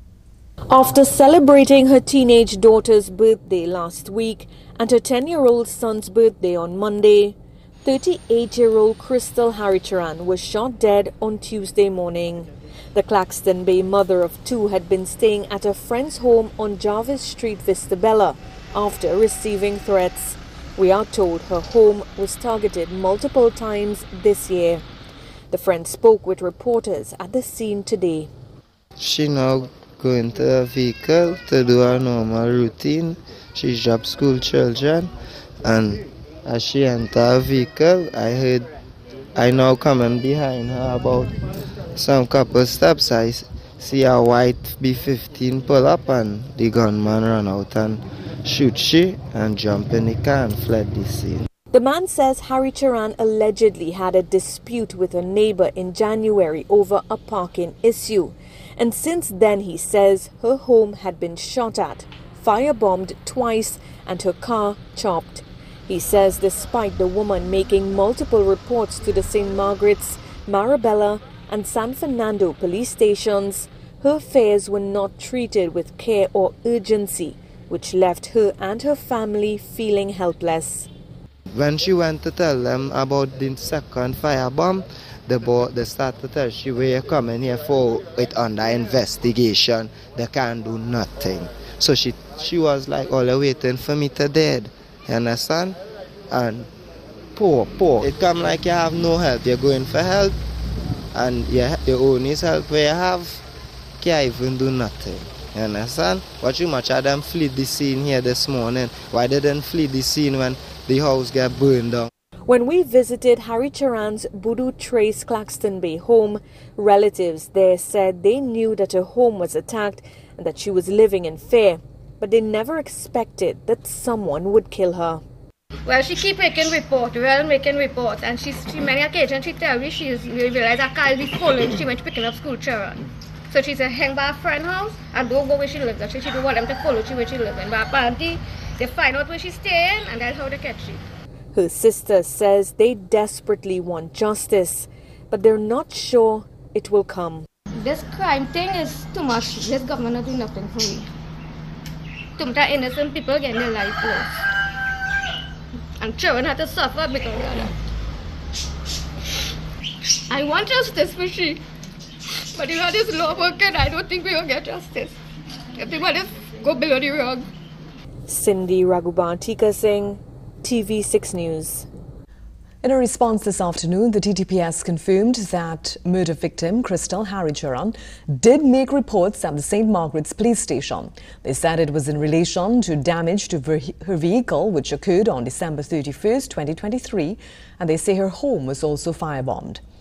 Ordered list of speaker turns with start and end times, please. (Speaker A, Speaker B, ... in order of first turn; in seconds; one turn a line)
Speaker A: 0.7-24.8
Speaker A: 25.5-28.3
Speaker B: 29.0-35.1
Speaker B: 35.6-38.7
Speaker B: 39.4-41.4
Speaker B: 42.0-51.5
Speaker A: 51.7-80.9
Speaker B: 81.5-95.8
Speaker B: 96.3-96.7
Speaker B: 97.4-100.4
Speaker B: 101.1-103.4
Speaker B: 104.0-112.1
Speaker A: 112.5-125.2
Speaker C: 125.9-141.0
Speaker A: 141.6-147.5
Speaker C: 147.8-151.1
Speaker C: 152.4-154.5
Speaker C: 156.0-157.7
Speaker C: 160.3-161.6
Speaker C: 162.5-165.2
Speaker C: 165.8-167.5
Speaker A: 168.3-171.9
Speaker D: 172.8-189.8